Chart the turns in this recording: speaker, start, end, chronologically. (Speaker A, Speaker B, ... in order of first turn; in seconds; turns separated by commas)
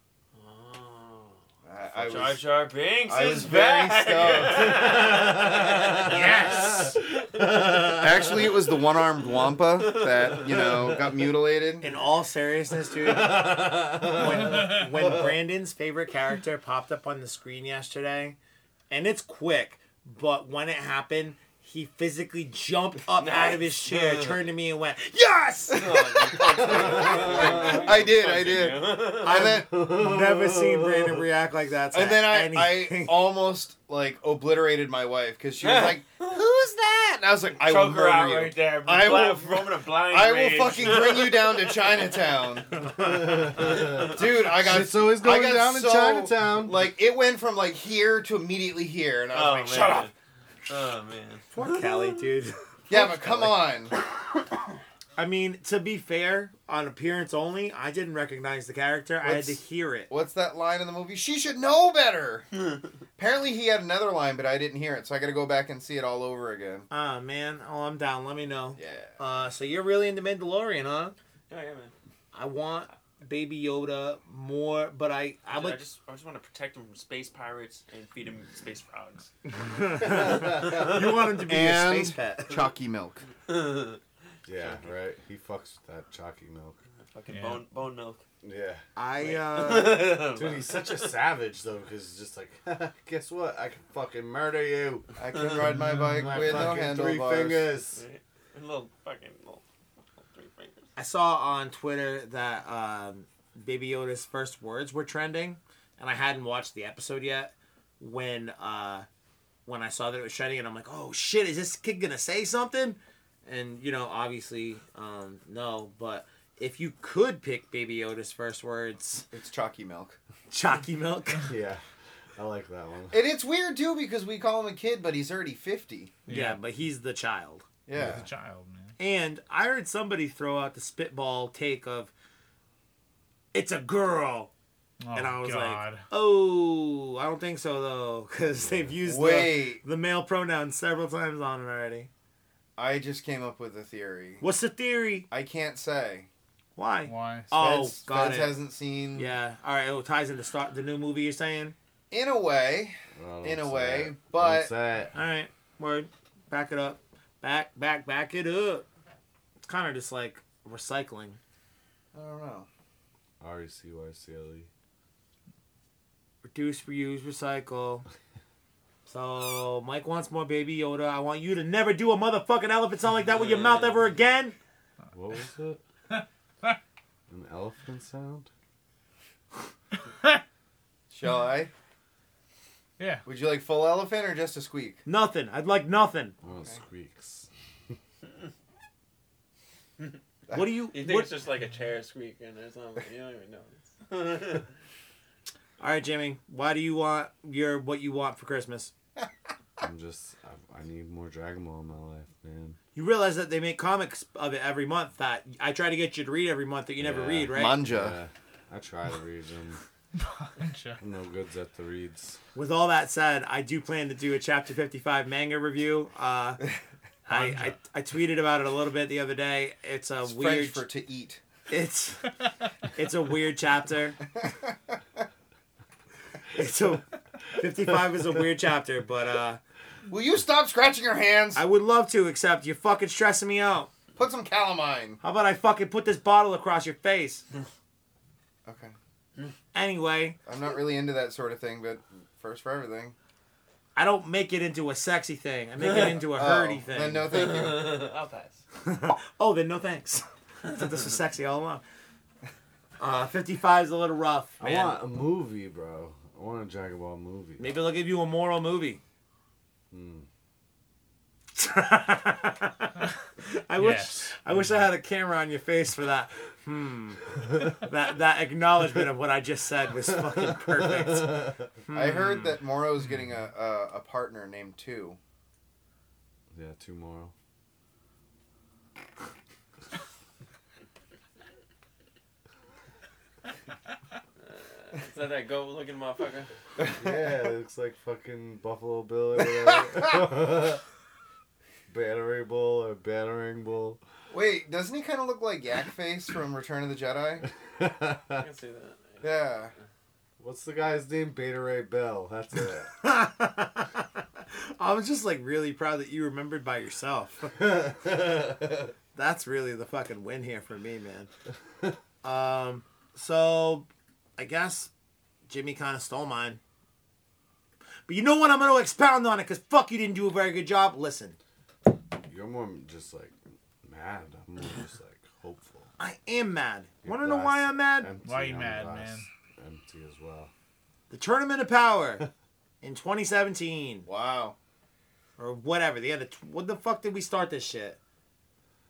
Speaker A: 0.3-1.4, Speaker B: 1.6-2.4, Speaker A: 1.9-10.9, Speaker B: 3.0-5.0, Speaker C: 4.5-8.6, Speaker D: 6.0-6.9, Speaker B: 7.9-11.8, Speaker D: 11.8-18.4, Speaker C: 13.0-15.3, Speaker D: 18.9-25.9, Speaker A: 23.1-24.4, Speaker A: 25.7-29.5, Speaker B: 25.7-29.7, Speaker C: 26.6-27.8, Speaker D: 29.2-33.1, Speaker C: 29.3-31.2, Speaker B: 31.9-42.8, Speaker A: 35.6-36.4, Speaker A: 37.5-42.4, Speaker C: 43.0-46.8, Speaker A: 43.6-44.1, Speaker B: 44.0-50.1, Speaker A: 49.3-50.1, Speaker A: 50.7-52.2, Speaker D: 51.5-53.5, Speaker B: 52.9-53.9, Speaker D: 55.2-60.1, Speaker B: 59.2-62.5, Speaker B: 63.2-66.9, Speaker D: 66.9-71.1, Speaker B: 68.8-69.2, Speaker A: 71.5-71.9, Speaker D: 72.3-75.8, Speaker A: 75.5-79.3, Speaker D: 79.5-82.5, Speaker C: 80.0-80.8, Speaker A: 80.5-80.9, Speaker B: 81.4-83.2, Speaker A: 83.5-84.0, Speaker C: 84.5-86.8, Speaker A: 84.5-84.9, Speaker A: 87.1-88.2, Speaker E: 87.3-87.6, Speaker C: 88.4-88.8, Speaker D: 89.0-90.2, Speaker A: 89.2-91.1, Speaker C: 90.1-95.1, Speaker B: 95.2-97.7, Speaker C: 95.8-98.0, Speaker A: 97.9-100.9, Speaker D: 101.0-109.0, Speaker D: 109.7-119.3, Speaker B: 119.3-120.2, Speaker D: 120.5-121.5, Speaker C: 121.5-121.8, Speaker C: 122.3-123.2, Speaker B: 123.1-126.1, Speaker E: 126.3-126.6, Speaker D: 126.3-127.7, Speaker B: 127.9-128.2, Speaker C: 128.0-128.2, Speaker E: 128.0-128.9, Speaker D: 129.0-132.1, Speaker D: 133.5-134.5, Speaker E: 135.0-136.0, Speaker D: 135.1-142.1, Speaker C: 138.5-138.9, Speaker B: 139.0-139.8, Speaker B: 142.8-144.4, Speaker D: 144.4-145.3, Speaker B: 145.3-146.3, Speaker D: 146.8-148.5, Speaker E: 147.1-147.5, Speaker B: 147.5-149.3, Speaker D: 149.1-151.7, Speaker B: 152.1-154.7, Speaker C: 153.1-155.1, Speaker D: 155.1-158.8, Speaker D: 159.6-161.4, Speaker B: 162.1-162.7, Speaker C: 163.4-164.7, Speaker D: 166.4-168.1, Speaker D: 169.1-174.6, Speaker A: 173.3-174.0, Speaker C: 175.1-175.8, Speaker C: 177.3-178.5, Speaker B: 181.1-181.7, Speaker E: 183.0-183.2, Speaker B: 183.2-185.0, Speaker D: 185.0-186.3, Speaker C: 186.4-187.9, Speaker D: 190.5-191.3, Speaker A: 190.9-194.7, Speaker D: 195.8-198.9, Speaker C: 199.8-202.8, Speaker D: 202.9-207.8, Speaker C: 207.0-209.8, Speaker B: 207.5-208.2, Speaker E: 210.2-211.0, Speaker C: 211.0-212.4, Speaker D: 212.5-216.6, Speaker D: 217.2-220.8, Speaker E: 217.3-217.8, Speaker B: 220.2-221.4, Speaker D: 221.7-222.3, Speaker D: 222.9-224.2, Speaker B: 224.4-224.7, Speaker D: 226.5-229.6, Speaker B: 230.1-231.6, Speaker D: 231.5-233.9, Speaker B: 234.2-235.2, Speaker D: 235.2-237.4, Speaker B: 238.7-238.9, Speaker D: 239.7-240.4, Speaker B: 240.4-243.1, Speaker D: 243.9-247.3, Speaker B: 246.2-248.1, Speaker A: 247.3-248.6, Speaker D: 248.8-251.8, Speaker D: 253.0-255.0, Speaker C: 254.6-257.8, Speaker D: 257.6-259.0, Speaker C: 259.9-260.3, Speaker D: 261.6-272.5, Speaker E: 263.8-264.4, Speaker C: 270.1-271.7, Speaker B: 271.9-275.2, Speaker C: 276.5-277.3, Speaker A: 284.4-286.5, Speaker B: 286.8-287.3, Speaker C: 286.9-290.8, Speaker C: 291.9-294.0, Speaker B: 294.3-297.4, Speaker C: 297.6-298.4, Speaker A: 298.3-299.8, Speaker B: 299.2-299.7, Speaker C: 300.4-302.9, Speaker D: 303.0-307.6, Speaker C: 307.6-308.9, Speaker D: 309.1-311.3, Speaker D: 312.2-314.9, Speaker D: 315.5-316.6, Speaker D: 318.1-321.4, Speaker C: 322.2-325.9, Speaker D: 326.0-328.1, Speaker C: 327.0-330.5, Speaker E: 328.2-329.3, Speaker D: 331.1-332.2, Speaker D: 332.8-334.1, Speaker B: 334.1-334.6, Speaker D: 335.4-338.0